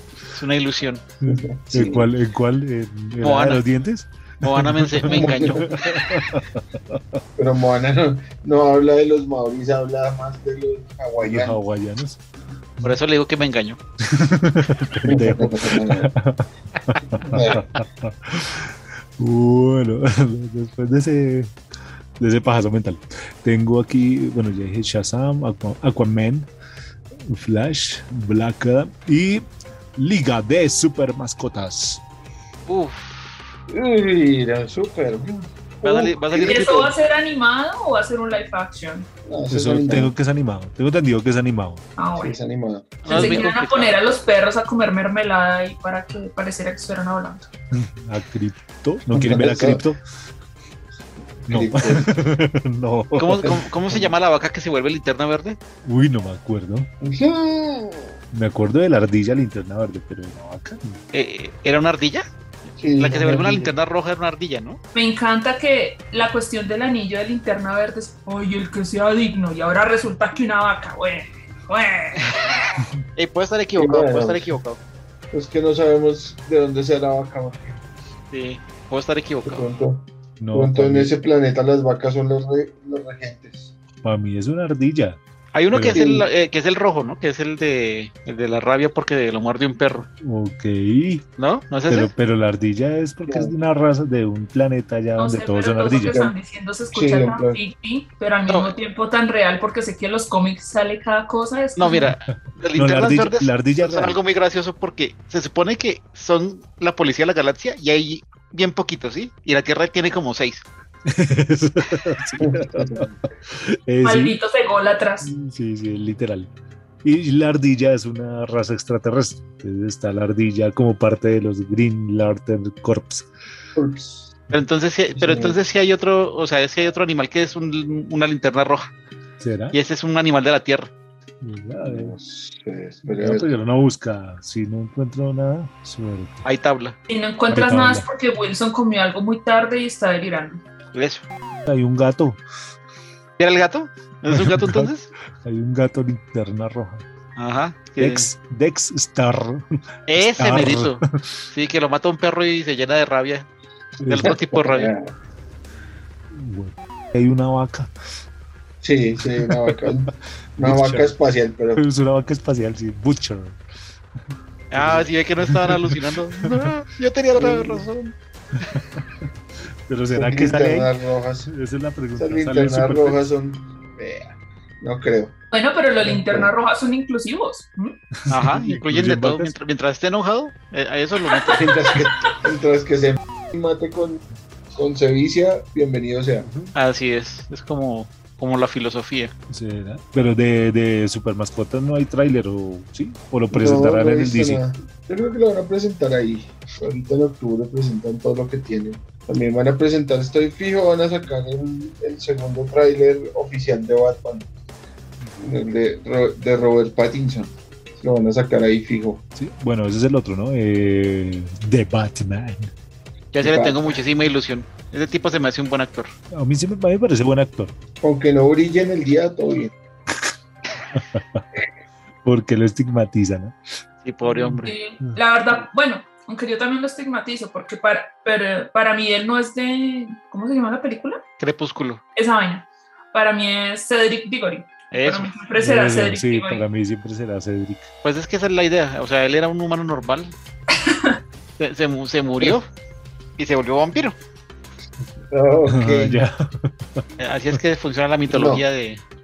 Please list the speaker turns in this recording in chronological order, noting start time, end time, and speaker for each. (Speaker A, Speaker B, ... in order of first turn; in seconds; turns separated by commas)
Speaker A: 0.3-1.0, Speaker B: 1.2-7.2, Speaker C: 1.3-2.1, Speaker A: 3.2-3.6, Speaker A: 4.4-6.0, Speaker C: 5.0-5.7, Speaker C: 7.4-11.6, Speaker B: 11.2-12.2, Speaker A: 12.8-13.8, Speaker B: 14.0-21.6, Speaker C: 15.1-16.1, Speaker C: 17.2-17.7, Speaker B: 22.2-26.5, Speaker B: 27.2-32.0, Speaker A: 32.7-33.5, Speaker C: 33.7-36.9, Speaker A: 35.8-36.8, Speaker D: 36.4-39.1, Speaker C: 39.2-40.1, Speaker B: 39.5-41.8, Speaker D: 42.0-42.4, Speaker C: 42.1-43.4, Speaker A: 43.0-44.0, Speaker D: 43.1-47.5, Speaker B: 47.7-50.0, Speaker C: 49.1-49.8, Speaker C: 51.4-52.1, Speaker B: 51.5-53.6, Speaker A: 53.1-55.6, Speaker C: 53.4-54.1, Speaker B: 55.8-56.9, Speaker C: 57.0-58.1, Speaker B: 58.3-61.0, Speaker A: 61.1-64.8, Speaker C: 62.8-63.7, Speaker D: 64.9-72.5, Speaker A: 73.2-74.8, Speaker C: 73.8-74.6, Speaker C: 75.3-77.8, Speaker A: 78.3-79.7, Speaker C: 79.5-83.7, Speaker B: 80.4-81.1, Speaker B: 84.0-85.2, Speaker A: 85.5-90.1, Speaker B: 85.7-86.1, Speaker C: 85.9-86.3, Speaker B: 90.2-91.2, Speaker A: 91.4-92.1, Speaker B: 91.9-96.2, Speaker C: 93.2-93.5, Speaker D: 95.2-102.1, Speaker C: 96.1-96.3, Speaker C: 96.9-97.6, Speaker A: 98.5-98.7, Speaker A: 101.8-110.6, Speaker B: 102.3-104.2, Speaker B: 111.1-114.3, Speaker C: 112.4-113.2, Speaker D: 114.0-115.3, Speaker B: 115.2-116.5, Speaker B: 117.0-123.3, Speaker C: 123.7-124.3, Speaker A: 124.5-128.9, Speaker C: 125.2-125.6, Speaker B: 129.4-129.8, Speaker A: 129.7-130.9, Speaker B: 131.4-132.1, Speaker C: 131.8-133.5, Speaker B: 133.1-136.4, Speaker A: 136.4-136.9, Speaker D: 137.1-140.6, Speaker B: 137.5-138.1, Speaker A: 140.9-141.2, Speaker B: 141.7-142.4, Speaker A: 143.4-145.1, Speaker B: 144.3-144.9, Speaker B: 145.4-147.0, Speaker A: 147.3-148.3, Speaker B: 148.0-149.6, Speaker A: 150.1-153.5, Speaker B: 150.2-151.0, Speaker B: 154.0-154.3, Speaker A: 154.0-154.9, Speaker C: 154.2-155.1, Speaker B: 156.3-157.9, Speaker C: 158.8-161.8, Speaker B: 159.3-159.9, Speaker B: 160.6-161.1, Speaker B: 161.8-163.6, Speaker A: 164.7-168.1, Speaker B: 164.7-166.5, Speaker C: 167.3-167.9, Speaker B: 168.7-169.1, Speaker B: 169.9-170.9, Speaker C: 170.1-171.5, Speaker B: 171.4-173.3, Speaker C: 172.2-175.3, Speaker D: 175.5-178.0, Speaker C: 176.0-176.5, Speaker B: 178.2-179.5, Speaker A: 178.3-181.9, Speaker D: 181.3-181.6, Speaker C: 181.5-186.5, Speaker B: 186.4-186.7, Speaker A: 186.7-189.3, Speaker B: 189.5-194.6, Speaker C: 193.5-204.5, Speaker B: 205.2-205.5, Speaker C: 205.4-209.2, Speaker B: 209.3-212.7, Speaker A: 213.3-216.1, Speaker C: 213.4-214.0, Speaker B: 216.3-217.7, Speaker C: 218.0-219.7, Speaker B: 220.9-221.4, Speaker B: 222.2-223.5, Speaker A: 224.0-224.7, Speaker B: 224.2-225.2, Speaker D: 224.6-231.2, Speaker A: 231.4-232.0, Speaker D: 232.1-236.6, Speaker A: 234.9-235.3, Speaker B: 235.6-237.9, Speaker A: 238.0-240.3, Speaker D: 240.7-241.2, Speaker A: 241.6-242.7, Speaker A: 243.4-244.1, Speaker C: 245.3-246.2, Speaker B: 245.7-247.0, Speaker A: 247.2-249.0, Speaker C: 248.3-248.6